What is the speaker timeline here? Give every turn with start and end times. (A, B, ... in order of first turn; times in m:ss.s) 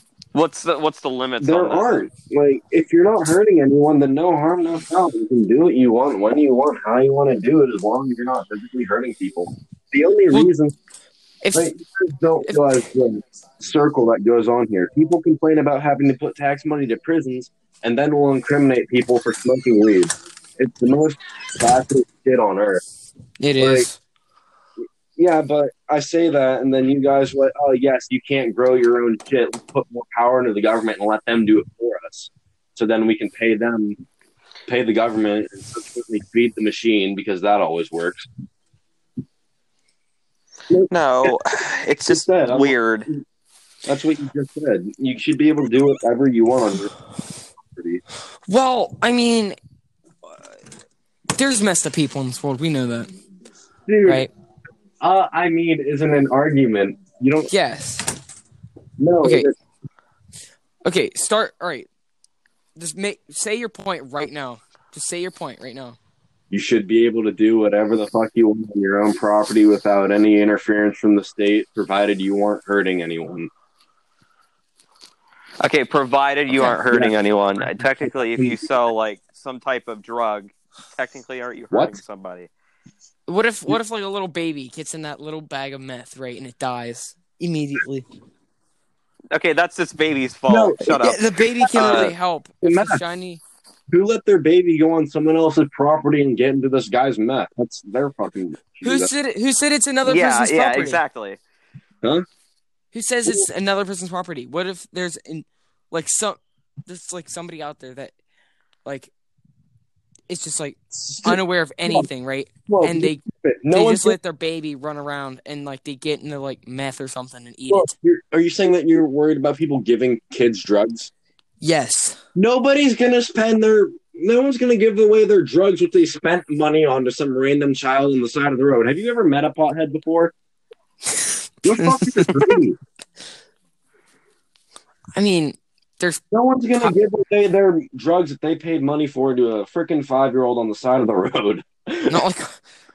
0:00.3-0:02.0 A
0:01.4-0:10.7 B
0:11.4-0:11.7 C
0:11.5-0:22.8 B
0:12.4-0:12.8 C
0:23.4-0:24.0 C
0:23.6-0:23.9 B
0:25.1-0:34.0 B
0:34.7-0:38.2 B
0:40.7-0:41.4 B
0:40.9-0:43.1 A
0:42.1-0:43.2 B
0:43.8-0:46.9 B
0:47.7-0:48.0 B
0:48.5-0:49.6 C
0:51.4-0:53.1 C
0:53.9-0:54.3 B
0:54.0-0:54.3 C
0:55.0-0:57.5 B
0:57.5-0:58.2 C
0:59.0-0:59.5 B
0:59.2-0:59.5 C
1:00.8-1:01.9 C
1:02.8-1:06.0 C
1:06.5-1:13.5 B
1:15.6-1:22.5 A
1:16.9-1:18.7 B
1:21.7-1:22.0 B
1:23.3-1:28.0 C
1:29.3-1:32.1 A
1:30.5-1:33.0 B
1:30.9-1:33.4 C
1:33.9-1:39.1 B
1:38.8-1:41.0 C
1:40.0-1:41.4 A
1:42.9-1:48.1 C
1:48.8-1:49.1 C
1:50.3-1:57.9 C
1:51.2-1:52.1 B
1:52.7-1:54.2 B
1:57.7-2:01.1 B
2:01.6-2:02.2 C
2:02.3-2:10.3 B
2:11.2-2:12.5 C
2:11.6-2:12.8 B
2:15.1-2:16.2 C
2:16.3-2:22.2 B
2:22.1-2:22.6 C